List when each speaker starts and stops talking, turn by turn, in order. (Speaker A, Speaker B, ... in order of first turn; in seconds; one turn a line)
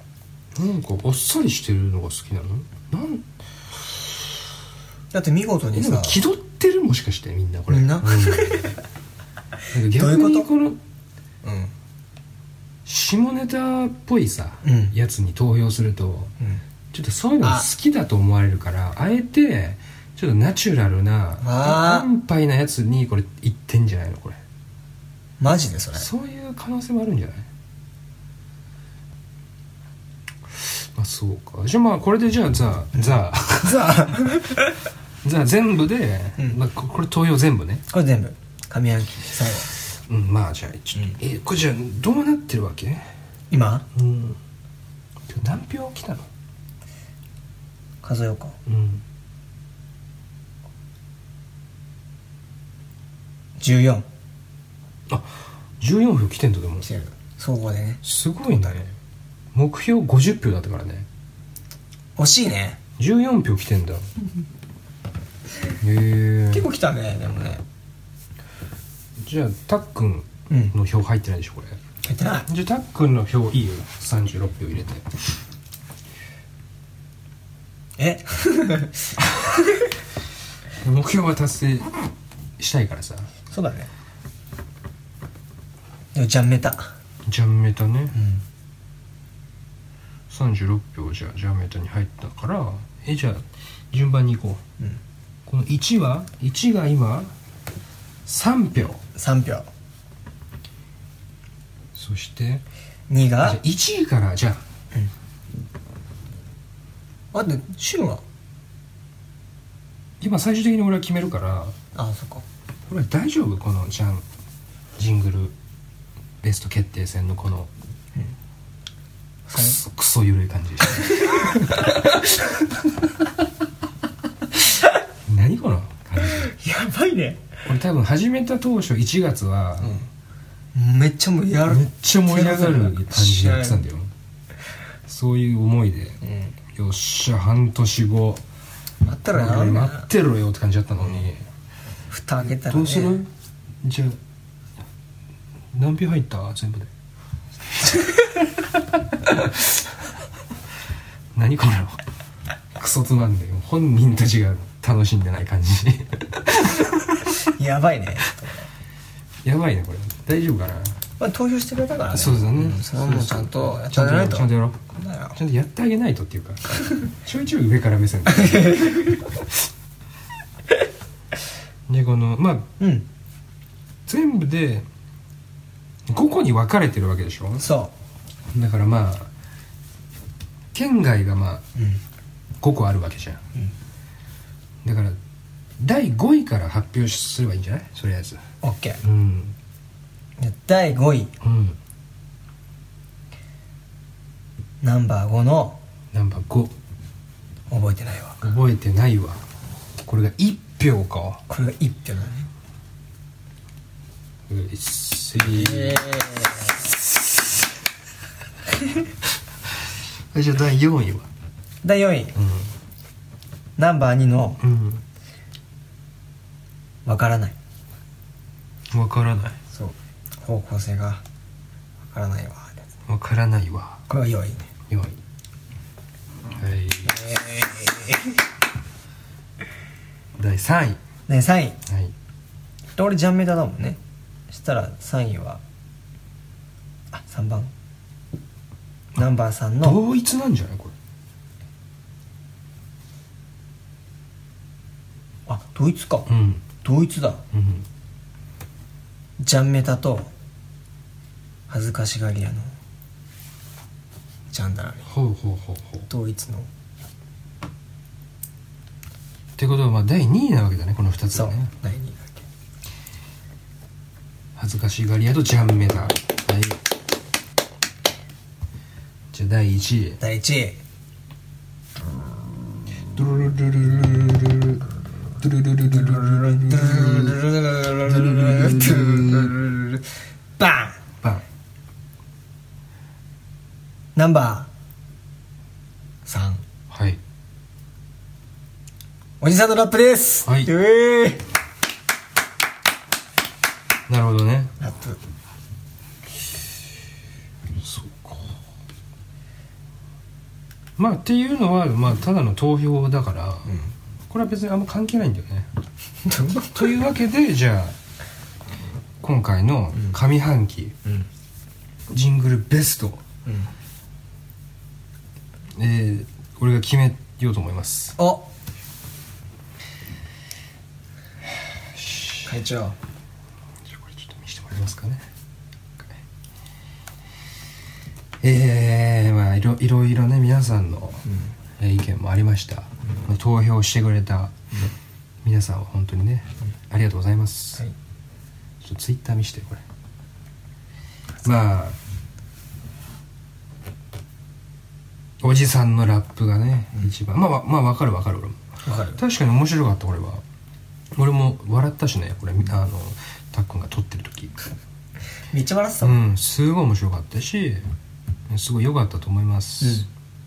Speaker A: 0.5-3.2
Speaker B: 5.1-6.2
Speaker A: 5.7-8.7
Speaker B: 7.7-8.8
Speaker A: 9.7-10.8
Speaker B: 9.9-10.5
Speaker B: 11.4-11.7
Speaker A: 12.8-16.3
Speaker B: 14.6-14.9
Speaker A: 16.9-24.4
Speaker B: 17.4-17.7
Speaker B: 21.4-22.1
Speaker B: 25.4-26.1
Speaker A: 25.9-27.5
Speaker A: 30.5-34.1
Speaker B: 32.9-34.7
Speaker A: 35.2-37.8
Speaker B: 37.9-39.7
Speaker A: 40.0-43.1
Speaker B: 40.9-41.2
Speaker B: 43.5-43.9
Speaker A: 43.9-44.4
Speaker A: 45.3-46.3
Speaker B: 48.0-48.6
Speaker A: 48.6-49.0
Speaker B: 53.6-54.0
Speaker A: 55.1-56.9
Speaker B: 56.8-58.0
Speaker A: 58.0-58.9
Speaker A: 59.5-61.0
Speaker B: 62.2-62.8
Speaker A: 63.0-64.1
Speaker A: 65.8-66.7
Speaker B: 66.5-67.6
Speaker A: 69.2-71.8
Speaker B: 70.5-70.7
Speaker B: 72.0-72.5
Speaker A: 72.5-75.1
Speaker B: 78.0-79.1
Speaker A: 80.8-82.0
Speaker A: 82.6-83.3
Speaker B: 83.5-83.9
Speaker B: 86.1-86.9
Speaker A: 87.2-88.1
Speaker B: 88.1-88.4
Speaker A: 90.3-94.6
Speaker A: 95.5-97.3
Speaker A: 98.2-99.0
Speaker B: 99.1-99.7
Speaker A: 101.9-102.6
Speaker B: 103.1-103.6
Speaker A: 103.4-104.6
Speaker B: 107.3-108.2
Speaker A: 110.2-111.8
Speaker B: 111.9-112.4
Speaker A: 112.9-114.2
Speaker A: 115.0-115.5
Speaker A: 116.4-117.7
Speaker B: 119.5-119.8
Speaker A: 119.5-122.5
Speaker B: 121.2-121.6
Speaker A: 125.2-126.5
Speaker B: 126.2-127.4
Speaker A: 127.6-130.0
Speaker B: 129.8-130.1
Speaker B: 130.7-133.8
Speaker A: 131.7-134.1
Speaker A: 135.1-136.2
Speaker B: 136.2-136.5
Speaker A: 136.7-138.4
Speaker B: 139.0-140.1
Speaker A: 139.3-141.4
Speaker B: 142.1-143.2
Speaker A: 142.7-143.3
Speaker A: 143.8-144.2
Speaker A: 145.7-146.9
Speaker A: 149.2-149.7
Speaker A: 151.3-152.0
Speaker A: 152.7-157.3
Speaker B: 157.4-158.7
Speaker A: 159.4-161.0
Speaker B: 161.2-165.4
Speaker A: 162.1-164.8
Speaker A: 165.3-169.4
Speaker B: 168.4-169.2
Speaker A: 171.9-172.7
Speaker B: 172.8-173.0
Speaker A: 174.1-174.9
Speaker A: 176.1-177.7
Speaker B: 177.6-177.9
Speaker A: 178.5-179.3
Speaker A: 180.7-181.6
Speaker B: 181.7-182.0
Speaker A: 182.6-183.4
Speaker A: 184.8-185.2
Speaker A: 185.8-188.4
Speaker B: 188.6-189.0
Speaker A: 189.0-189.6
Speaker B: 190.4-191.3
Speaker A: 191.4-191.8
Speaker B: 194.8-195.8
Speaker A: 196.1-196.8
Speaker B: 197.7-198.4
Speaker A: 198.4-199.4
Speaker A: 200.0-201.4
Speaker B: 201.5-202.5
Speaker A: 204.5-206.1
Speaker B: 205.4-206.6
Speaker A: 210.3-211.3
Speaker B: 211.8-212.4
Speaker A: 212.4-212.7
Speaker B: 213.8-214.6
Speaker A: 214.6-215.0
Speaker B: 217.1-217.6
Speaker A: 218.9-219.6
Speaker B: 219.7-221.2
Speaker B: 222.0-222.9
Speaker A: 223.1-224.0
Speaker B: 224.1-224.7
Speaker A: 224.9-225.2
Speaker A: 226.6-227.2
Speaker B: 227.1-228.3
Speaker A: 230.4-231.0
Speaker B: 231.3-231.8
Speaker A: 231.9-232.1
Speaker B: 233.0-234.0
Speaker B: 234.5-235.6
Speaker B: 237.1-237.7
Speaker B: 239.1-240.0
Speaker A: 239.8-240.9
Speaker B: 245.5-247.4
Speaker A: 246.3-246.6
Speaker A: 247.5-247.8
Speaker B: 249.4-250.3
Speaker B: 251.7-252.7
Speaker B: 254.5-255.1
Speaker A: 255.1-256.1
Speaker B: 256.1-256.7
Speaker A: 259.6-261.7
Speaker B: 261.3-262.4
Speaker A: 264.6-266.8
Speaker A: 269.3-270.2
Speaker B: 270.2-270.8
Speaker A: 273.1-274.8
Speaker A: 275.4-277.4
Speaker B: 275.9-280.0
Speaker A: 277.9-279.6
Speaker B: 280.6-281.0
Speaker B: 284.1-284.7
Speaker B: 286.2-286.6
Speaker A: 286.9-287.2
Speaker B: 289.4-291.4
Speaker A: 290.4-290.7
Speaker A: 294.1-294.7
Speaker B: 294.8-295.2
Speaker A: 297.8-298.6
Speaker A: 301.0-303.7
Speaker B: 303.6-303.9
Speaker A: 304.3-305.7
Speaker B: 306.2-307.0
Speaker A: 306.7-307.9
Speaker A: 309.2-311.0
Speaker A: 312.1-313.2
Speaker A: 315.7-318.1
Speaker B: 318.2-318.5
Speaker A: 321.9-322.5
Speaker B: 322.4-322.9
Speaker A: 323.9-325.2
Speaker A: 328.4-331.2
Speaker B: 331.2-331.5
Speaker A: 331.8-334.8
Speaker A: 335.4-337.8
Speaker A: 338.8-339.8
Speaker A: 341.4-341.9
Speaker A: 345.4-348.6
Speaker B: 348.8-349.2
Speaker A: 349.2-350.4
Speaker A: 351.1-354.6
Speaker B: 355.5-356.2
Speaker A: 356.0-357.9
Speaker A: 358.5-360.1
Speaker B: 359.8-360.1